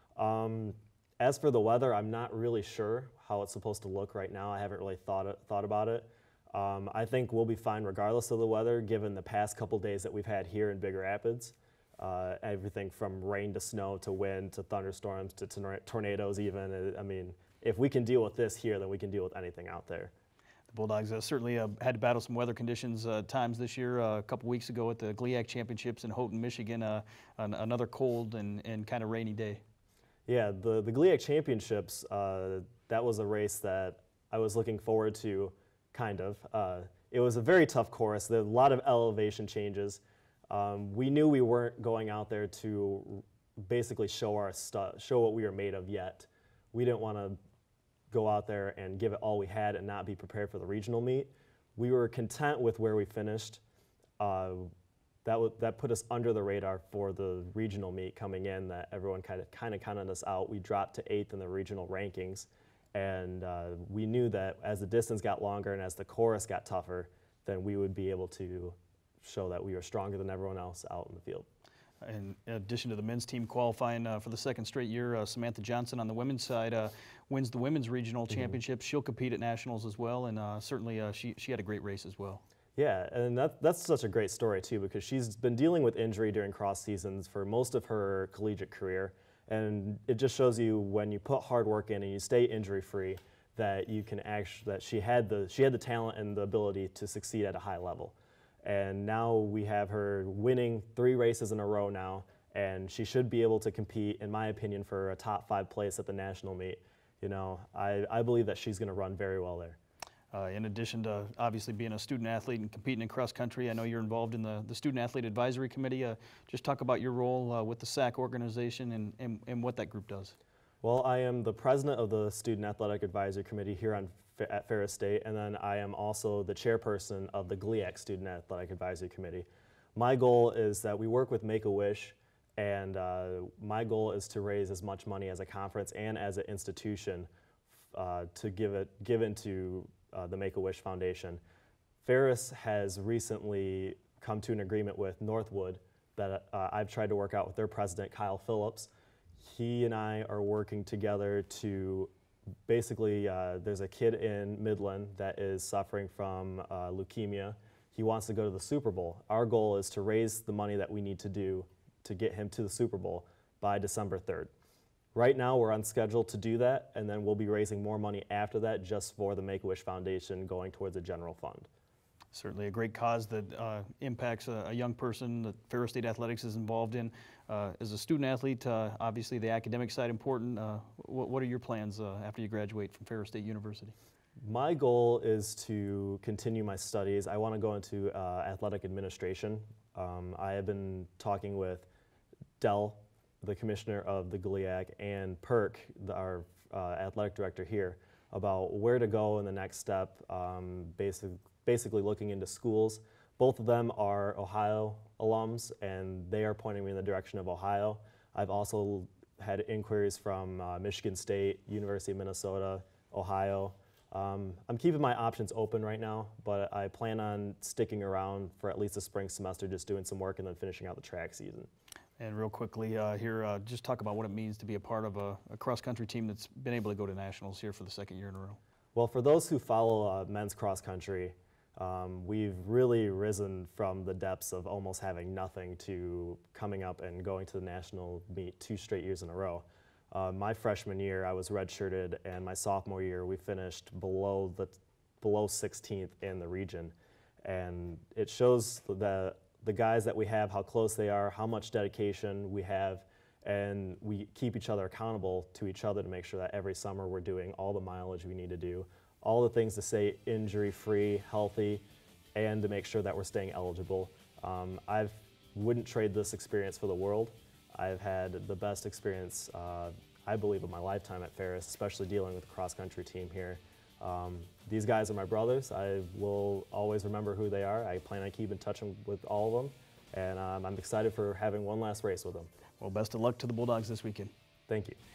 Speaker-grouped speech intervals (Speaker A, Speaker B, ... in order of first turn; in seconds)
Speaker A: 0.2-20.1, 30.3-47.4, 48.1-53.6, 54.2-54.7, 55.2-71.5, 82.8-109.8, 120.8-137.3, 137.9-141.4, 142.0-148.9, 149.4-152.1, 152.7-164.5, 165.1-171.7, 184.4-191.9, 192.6-221.7, 228.9-261.8, 262.4-282.5, 284.7-285.0
Speaker B: 20.7-29.6, 72.0-82.4, 110.3-120.3, 172.3-183.9, 222.2-228.6, 282.8-284.3